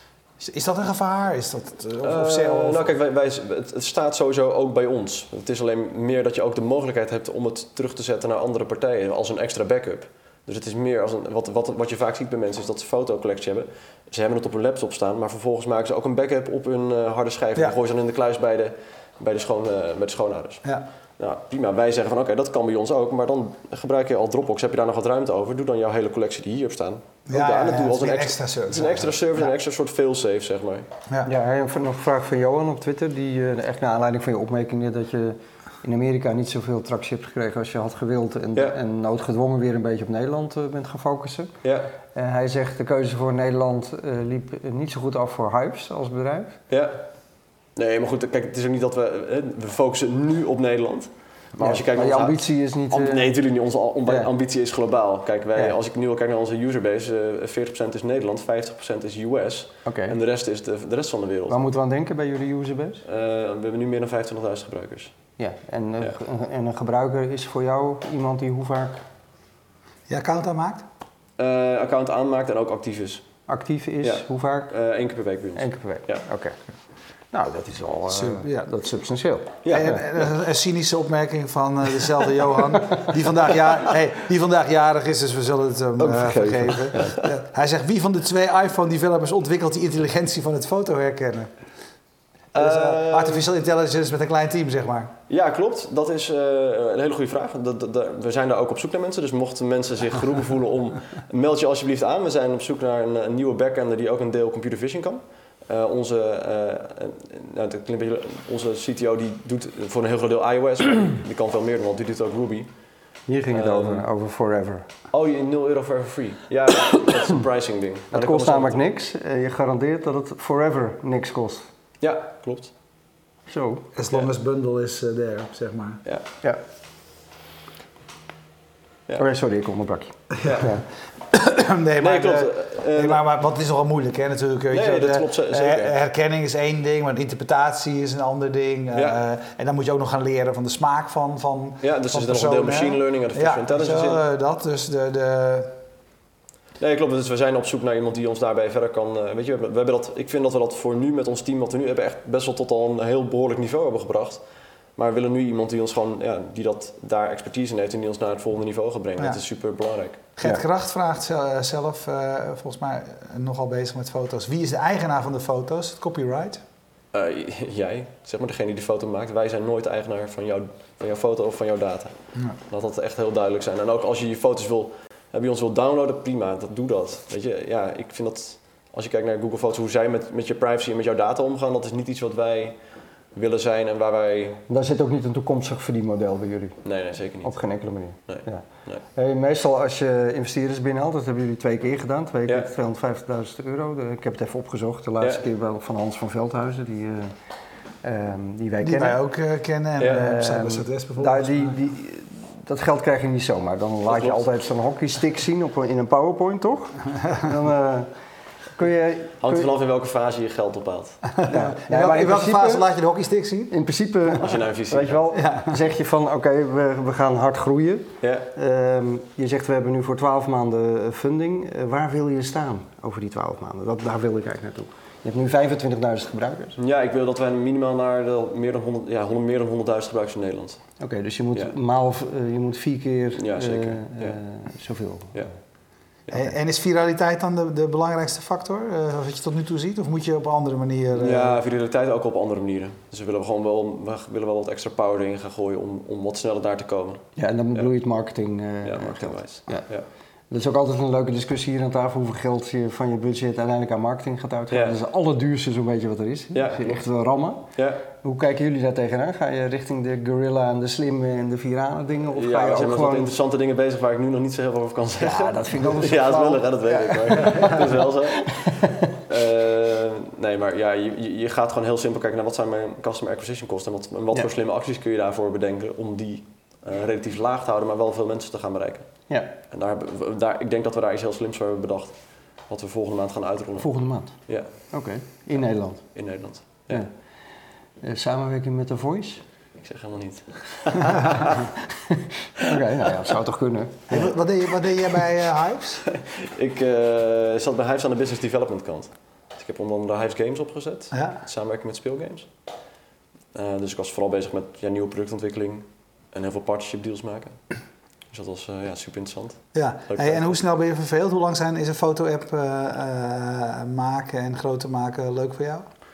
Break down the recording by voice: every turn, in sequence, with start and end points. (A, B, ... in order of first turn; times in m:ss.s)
0:00.4-0:02.9 A
0:02.0-0:20.6 B
0:21.2-0:30.8 B
0:27.3-0:29.5 A
0:31.2-0:41.5 C
0:41.6-0:41.9 B
0:42.1-0:46.6 C
0:46.7-0:47.0 B
0:47.8-1:01.6 B
0:51.6-0:53.4 C
0:59.8-1:00.2 C
1:01.5-1:03.0 C
1:03.0-1:05.1 B
1:05.4-1:09.0 C
1:10.1-1:10.8 A
1:11.4-1:13.3 B
1:13.5-1:14.7 C
1:14.0-1:16.2 B
1:15.6-1:16.6 C
1:17.3-1:19.6 C
1:18.1-1:18.7 A
1:19.6-1:20.0 B
1:19.7-1:31.5 A
1:26.0-1:27.2 C
1:26.9-1:27.2 B
1:32.5-1:33.4 B
1:32.5-1:35.1 A
1:35.3-1:52.7 B
1:53.3-1:54.9 C
1:53.5-1:54.0 B
1:55.1-1:58.8 B
1:58.1-2:01.7 C
2:02.0-2:02.7 B
2:03.5-2:03.8 C
2:03.9-2:06.0 A
2:09.2-2:10.8 C
2:10.4-2:10.8 B
2:11.2-2:25.8 A
2:12.0-2:13.2 B
2:14.7-2:16.0 B
2:18.9-2:19.2 B
2:21.8-2:24.2 B
2:26.8-2:34.4 B
2:35.0-2:40.2 B
2:40.4-2:46.6 A
2:47.1-2:52.2 B
2:52.7-3:02.8 B
3:03.3-3:04.6 B
3:04.7-3:06.8 C
3:06.8-3:09.0 B
3:07.4-3:17.3 C
3:18.0-3:19.2 C
3:18.8-3:21.8 A
3:20.0-3:20.3 B
3:20.0-3:28.1 C
3:24.1-3:24.4 B
3:28.8-3:29.6 C
3:29.4-3:31.3 B
3:31.4-3:33.7 A
3:31.5-3:32.8 C
3:33.7-3:46.8 C
3:34.4-3:35.2 B
3:35.3-3:35.8 A
3:38.2-3:38.5 B
3:46.8-3:50.9 B
3:51.0-3:55.5 C
3:53.4-3:54.4 B
3:56.3-3:56.5 B
3:56.3-4:01.6 A
4:01.1-4:07.9 B
4:07.4-4:09.8 C
4:08.8-4:10.0 B
4:10.5-4:17.7 C
4:14.7-4:15.0 B
4:16.5-4:17.0 B
4:17.7-4:18.0 B
4:18.2-4:23.3 C
4:22.3-4:43.9 B
4:25.2-4:29.1 C
4:43.8-4:46.1 C
4:44.5-4:44.7 B
4:46.1-4:47.0 B
4:48.0-4:49.4 C
4:49.8-4:51.7 B
4:52.1-4:54.3 C
4:54.1-4:56.0 A
4:56.2-5:02.5 B
5:01.1-5:01.4 A
5:03.5-5:07.6 B
5:08.3-5:10.5 B
5:09.7-5:15.8 A